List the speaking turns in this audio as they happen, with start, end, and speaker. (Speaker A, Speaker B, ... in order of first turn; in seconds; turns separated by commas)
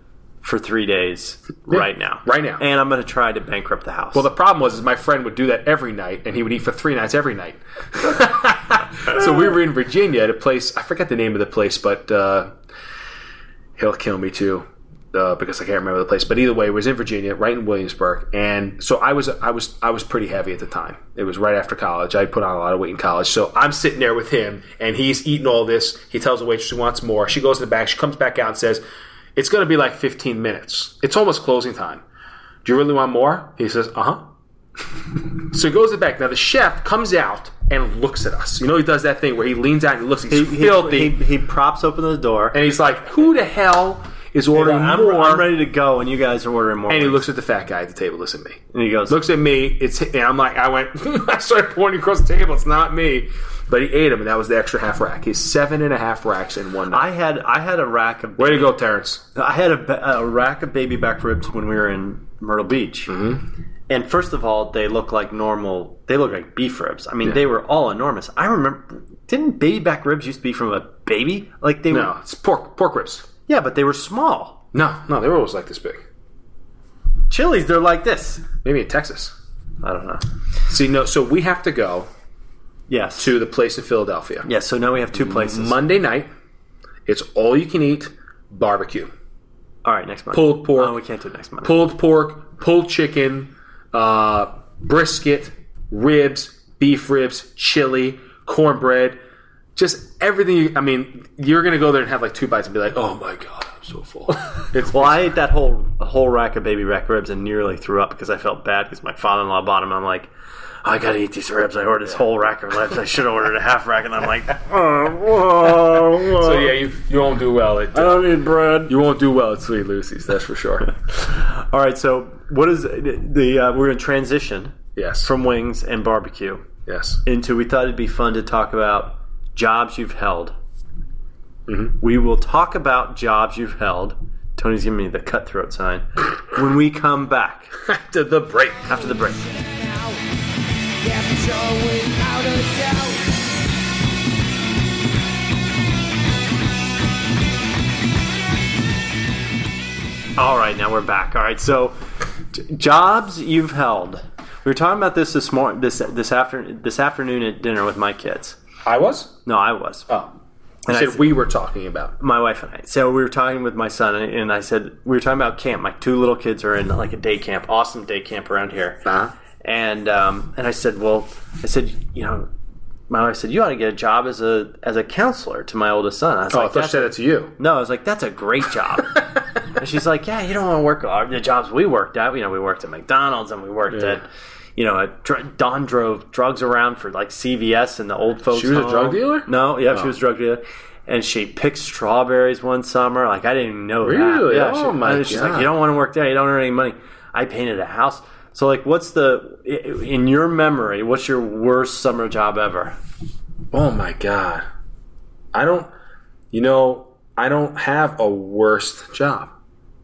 Speaker A: 0.4-4.3, Speaker B: 1.7-2.6, Speaker B: 4.1-12.5, Speaker B: 13.8-28.8, Speaker B: 29.4-32.0, Speaker B: 32.6-34.3, Speaker B: 35.0-41.2, Speaker A: 40.3-42.6, Speaker B: 42.5-45.5, Speaker A: 44.5-47.2, Speaker B: 46.9-57.1, Speaker A: 48.7-49.2, Speaker A: 56.9-58.8, Speaker B: 58.4-59.2, Speaker A: 59.3-63.1, Speaker B: 63.1-63.4, Speaker A: 63.9-72.1, Speaker B: 71.9-73.3, Speaker A: 73.5-74.6, Speaker B: 74.7-76.0, Speaker A: 77.3-78.5, Speaker B: 78.6-79.3, Speaker A: 79.8-80.2, Speaker B: 80.7-82.1, Speaker A: 82.9-83.3, Speaker B: 83.2-84.5, Speaker A: 84.4-85.8, Speaker B: 85.1-86.3, Speaker B: 87.0-89.1, Speaker A: 89.8-91.8, Speaker B: 90.3-91.0, Speaker B: 91.6-99.2, Speaker B: 99.8-105.3, Speaker A: 104.8-110.3, Speaker A: 110.8-116.7, Speaker B: 116.3-118.3, Speaker A: 117.9-118.9, Speaker B: 118.8-120.9, Speaker A: 121.1-126.7, Speaker B: 125.0-125.3, Speaker B: 126.8-127.2, Speaker A: 127.2-130.5, Speaker B: 131.7-131.9, Speaker A: 132.0-137.7, Speaker B: 137.8-138.9, Speaker A: 138.9-139.4, Speaker C: 139.0-140.3, Speaker C: 141.0-143.4, Speaker A: 150.4-152.0, Speaker A: 152.5-158.6, Speaker B: 158.8-159.3, Speaker A: 159.4-160.1, Speaker B: 160.1-160.3, Speaker A: 160.9-161.4, Speaker B: 160.9-162.1, Speaker A: 162.2-169.1, Speaker B: 169.0-169.3, Speaker A: 169.6-172.5, Speaker A: 173.1-203.0, Speaker B: 176.5-177.5, Speaker B: 183.9-184.2, Speaker B: 188.5-190.1, Speaker B: 194.0-195.7, Speaker B: 203.7-204.6, Speaker B: 205.5-205.9, Speaker B: 206.5-209.5